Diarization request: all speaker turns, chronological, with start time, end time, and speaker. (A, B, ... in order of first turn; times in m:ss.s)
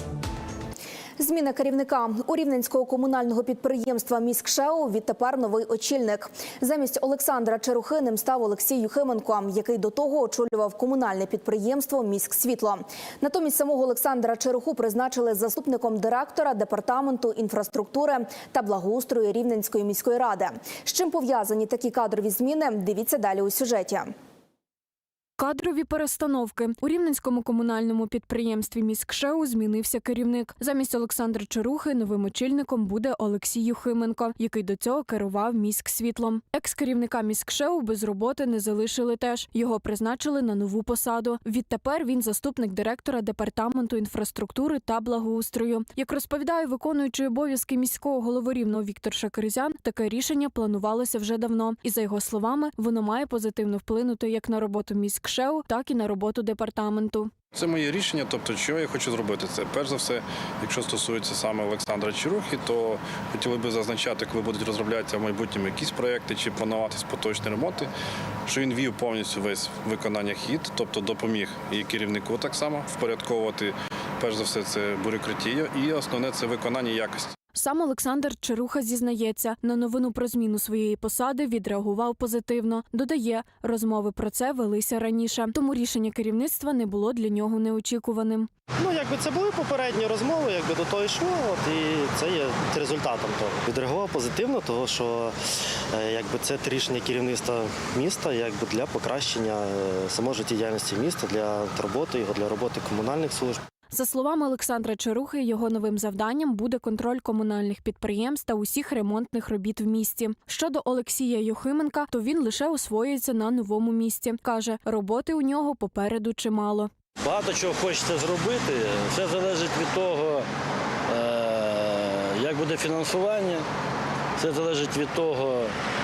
0:01.2-0:24.1 A
0:25.4-0:57.3 B
0:57.5-1:07.9 C
1:08.4-1:17.3 C
1:17.5-1:28.5 B
1:28.8-1:35.3 D
1:35.9-1:43.6 D
1:43.9-1:56.9 B
1:57.2-2:00.4 E
2:01.1-2:03.6 E
2:04.4-2:05.7 E